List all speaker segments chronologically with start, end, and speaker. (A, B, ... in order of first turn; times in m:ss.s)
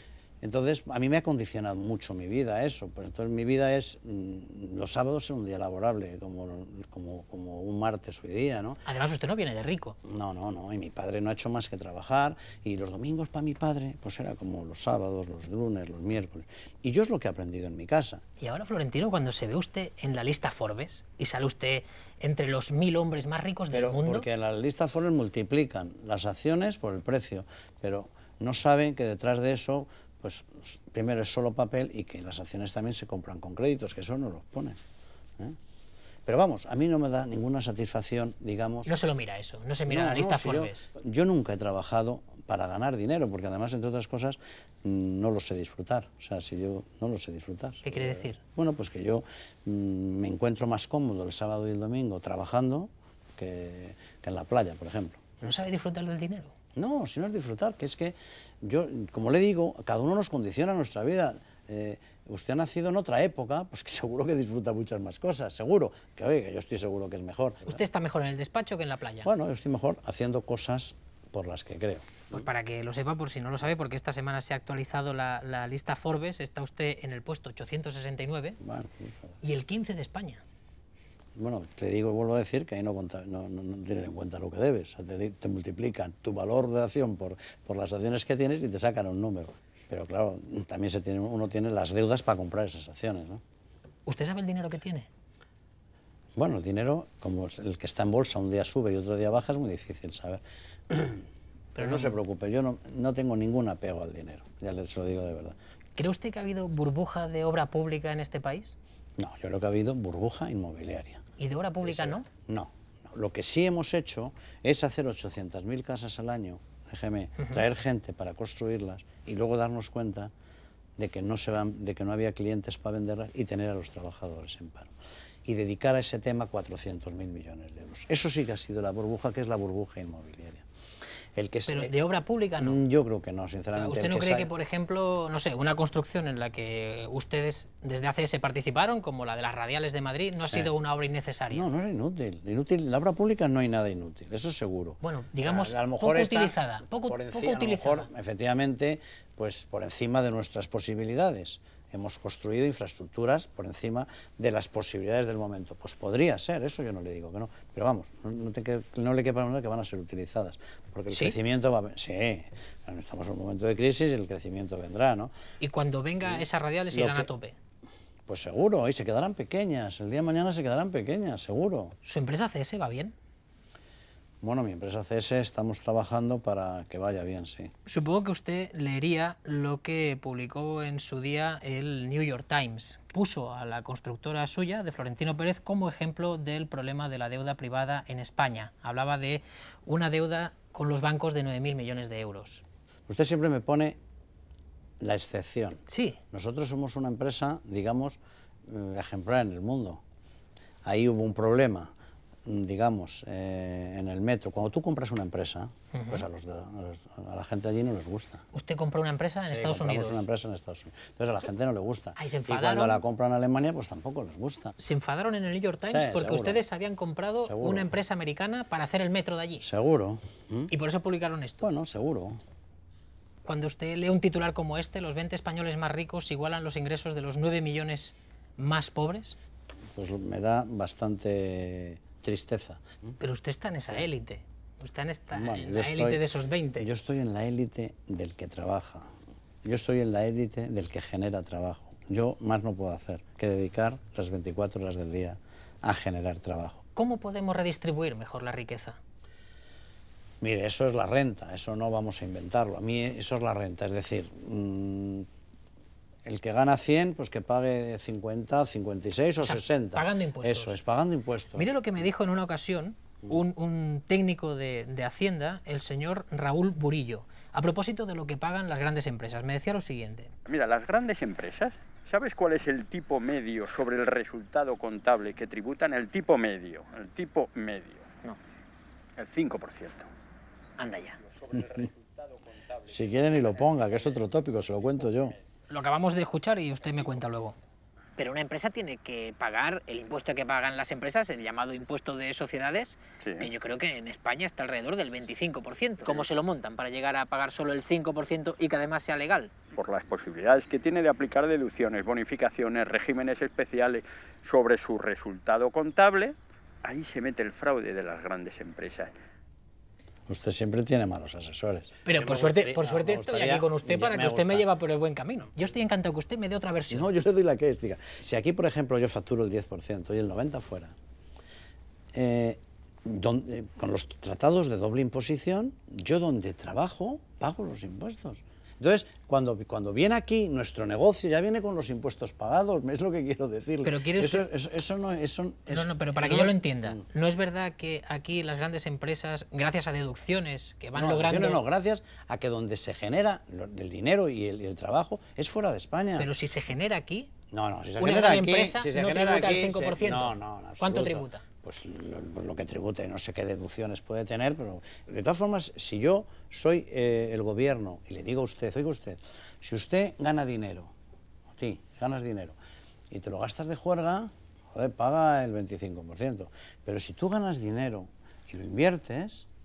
0:00.4-0:08.8 A
0:08.8-0:10.0 B
0:10.0-0:18.2 A
0:18.4-0:24.2 B
0:23.7-0:34.8 A
0:36.2-0:38.9 A
0:38.8-0:40.9 B
0:39.9-0:55.4 A
0:47.8-0:48.4 B
0:55.4-0:56.5 B
0:56.7-1:07.8 A
1:07.6-1:09.3 B
1:09.2-1:12.5 A
1:12.3-1:18.6 B
1:18.6-1:19.4 A
1:19.4-1:20.4 B
1:21.4-1:33.4 A
1:34.0-1:35.1 B
1:36.3-1:41.2 A
1:41.7-1:42.2 B
1:41.8-1:45.6 A
1:46.0-1:48.8 B
1:49.2-1:51.2 A
1:51.4-1:52.2 B
1:51.8-2:00.3 A
2:01.0-2:04.9 A
2:05.4-2:10.6 A
2:11.4-2:11.9 A
2:11.7-2:12.8 B
2:12.6-2:14.5 A
2:13.8-2:21.6 B
2:20.4-2:20.7 A
2:21.5-2:45.3 A
2:25.0-2:28.1 B
2:41.1-2:41.4 B
2:45.6-2:47.6 B
2:46.2-2:47.3 A
2:48.3-2:52.0 A
2:52.0-2:53.1 B
2:54.4-2:57.7 A
2:57.8-3:12.6 B
3:13.1-3:14.0 A
3:15.0-3:20.0 A
3:15.9-3:16.2 B
3:20.8-3:21.9 A
3:22.4-3:28.4 A
3:25.9-3:26.2 B
3:28.5-3:30.2 B
3:29.4-3:34.7 A
3:32.2-3:33.0 B
3:34.8-3:39.6 B
3:35.8-3:36.6 A
3:37.4-3:37.9 A
3:39.6-3:40.7 A
3:40.7-3:41.6 B
3:41.6-3:42.4 A
3:43.4-3:49.4 B
3:49.9-3:52.8 A
3:53.2-3:56.9 B
3:55.3-3:56.2 A
3:56.8-3:59.1 A
3:59.6-4:06.8 A
4:07.0-4:09.0 B
4:10.4-4:15.3 A
4:16.2-4:21.8 A
4:19.4-4:20.8 B
4:21.6-4:30.3 B
4:30.4-4:38.1 C
4:39.2-4:40.1 C
4:40.8-4:41.2 B
4:41.5-4:41.8 A
4:41.6-4:41.9 C
4:42.8-4:45.4 A
4:45.7-4:47.6 B
4:48.2-4:59.5 B
4:53.2-4:53.5 C
4:59.7-5:09.1 C
5:10.3-5:14.7 A
5:12.0-5:17.1 B
5:16.9-5:20.9 A
5:22.1-5:37.0 A
5:33.8-5:34.5 B
5:35.7-5:41.6 B
5:40.9-5:46.3 A
5:46.2-5:47.3 B
5:47.5-6:00.9 A
5:48.0-5:51.4 B
6:01.5-6:02.6 A
6:03.1-6:09.5 A